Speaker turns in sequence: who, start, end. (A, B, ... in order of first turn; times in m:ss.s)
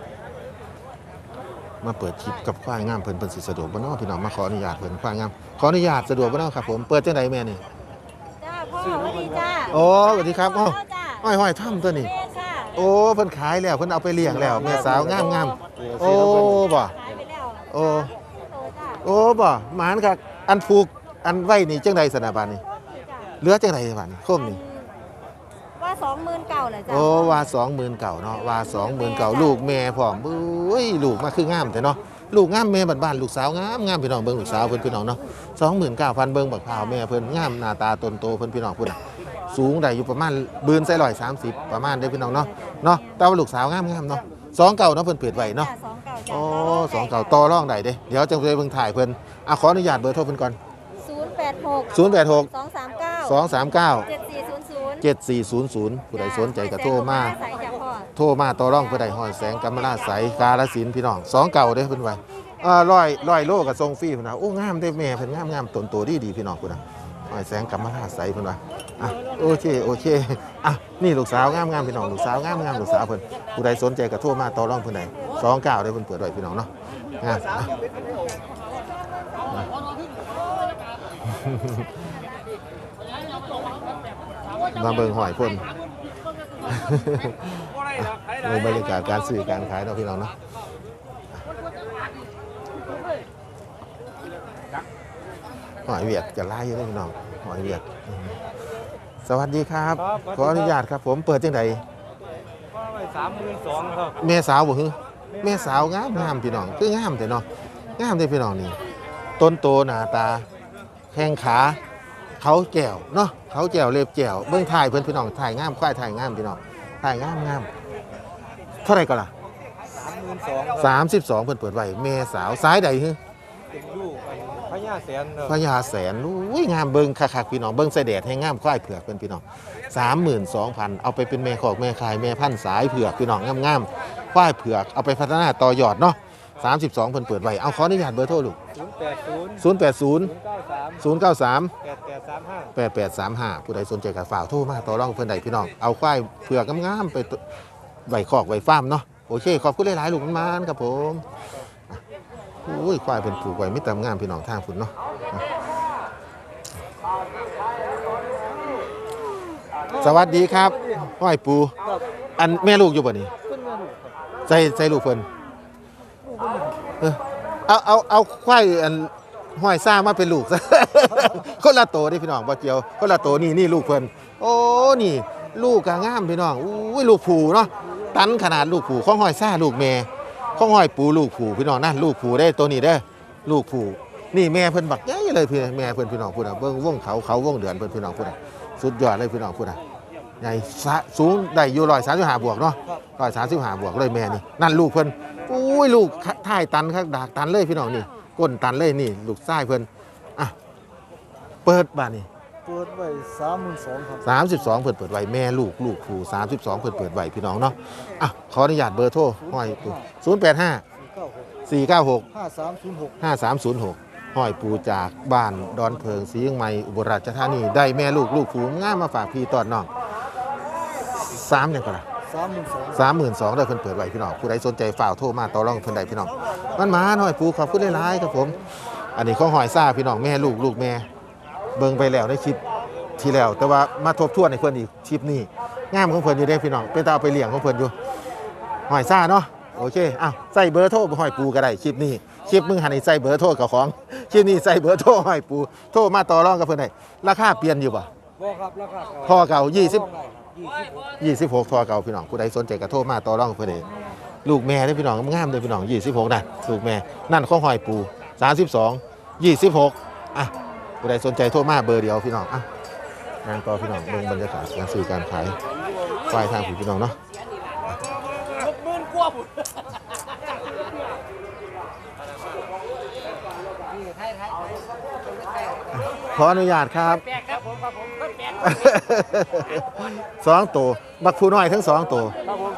0:01.8-0:07.6 A
0:08.4-0:09.7 B
0:09.7-0:12.2 A
0:12.2-0:12.7 B
0:12.7-0:17.0 A
0:17.0-0:17.7 B
0:17.7-0:18.1 A
0:18.4-0:19.0 B
0:19.0-0:22.6 A
0:22.9-0:23.3 B
0:23.4-0:24.6 A
0:24.6-0:24.9 B
0:25.8-0:26.9 B
0:26.9-0:50.6 A
0:45.7-0:46.6 B
0:51.0-0:51.9 B
0:51.9-0:52.5 A
0:52.5-0:53.2 B
0:53.2-0:54.1 A
0:54.1-0:55.0 B
0:55.0-0:57.4 A
0:57.4-0:58.1 B
0:58.1-1:17.7 A
1:21.2-1:22.0 A
1:24.7-1:25.6 A
1:26.7-1:30.3 A
1:35.8-1:38.4 A
1:39.2-1:41.8 A
1:44.1-1:47.5 A
1:48.0-1:48.8 A
1:49.4-1:50.5 A
1:51.1-1:51.8 A
1:52.4-1:57.7 A
1:58.8-1:59.3 A
2:00.3-2:00.6 C
2:00.6-2:03.2 A
2:03.8-2:05.2 C
2:05.3-2:18.6 A
2:19.4-2:21.7 A
2:22.2-2:22.5 C
2:22.6-2:27.4 A
2:28.1-2:31.3 A
2:32.6-2:35.5 A
2:39.9-2:41.8 A
2:42.4-2:43.3 A
2:43.7-2:44.0 D
2:44.5-2:45.3 A
2:47.0-3:09.8 A
3:10.4-3:20.6 A
3:21.6-3:22.3 A
3:22.7-3:24.2 D
3:24.2-3:30.8 A
3:31.7-3:32.3 A
3:32.5-3:33.0 D
3:33.2-3:39.9 A
3:41.0-3:42.1 A
3:42.5-3:42.7 D
3:42.9-3:51.1 A
3:51.8-3:52.6 A
3:53.2-3:58.0 A
3:58.9-4:08.1 A
4:08.5-4:09.1 D
4:09.2-4:10.1 A
4:11.2-4:13.9 A
4:14.4-4:22.7 A
4:23.4-4:25.6 A
4:26.1-4:27.2 A
4:36.0-4:37.6 A
4:38.5-4:42.4 A